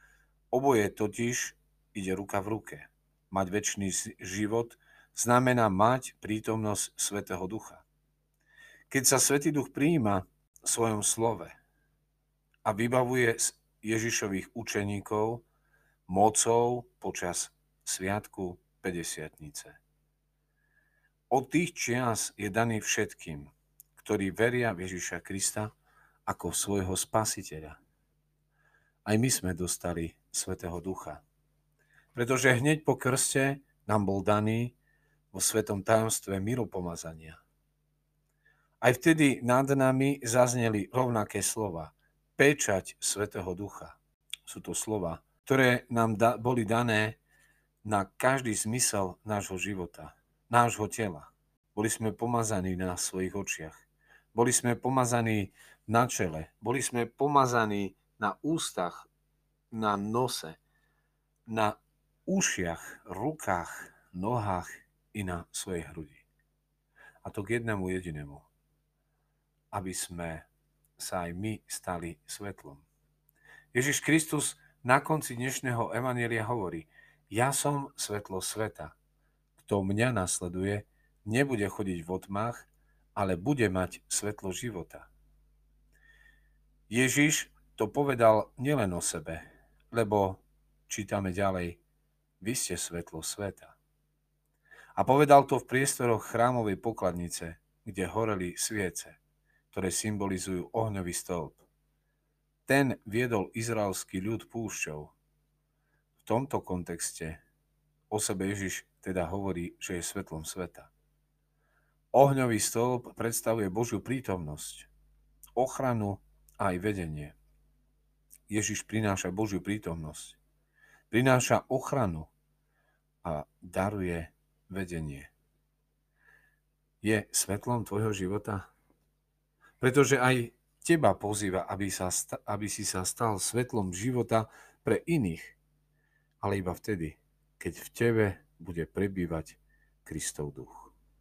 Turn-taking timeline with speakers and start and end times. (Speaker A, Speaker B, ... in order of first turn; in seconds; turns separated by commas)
Speaker A: 0.5-7.8, Speaker A: 8.9-11.6, Speaker A: 12.6-15.4, Speaker A: 16.1-19.8, Speaker A: 21.3-25.7, Speaker A: 26.2-27.8, Speaker A: 29.0-31.2, Speaker A: 32.1-34.8, Speaker A: 35.3-37.4, Speaker A: 38.8-47.2, Speaker A: 47.8-53.8, Speaker A: 54.3-59.1, Speaker A: 59.7-60.6, Speaker A: 61.5-66.2, Speaker A: 67.2-68.5, Speaker A: 69.7-72.8, Speaker A: 73.7-78.9, Speaker A: 79.6-85.1, Speaker A: 86.9-91.8, Speaker A: 92.4-93.8, Speaker A: 94.9-99.2, Speaker A: 99.7-101.6, Speaker A: 102.7-105.1, Speaker A: 106.2-107.4, Speaker A: 108.1-110.9, Speaker A: 112.1-114.9, Speaker A: 115.5-117.3, Speaker A: 118.5-120.4, Speaker A: 121.1-122.3, Speaker A: 123.2-125.3, Speaker A: 127.0-128.7, Speaker A: 129.8-135.6, Speaker A: 136.4-140.9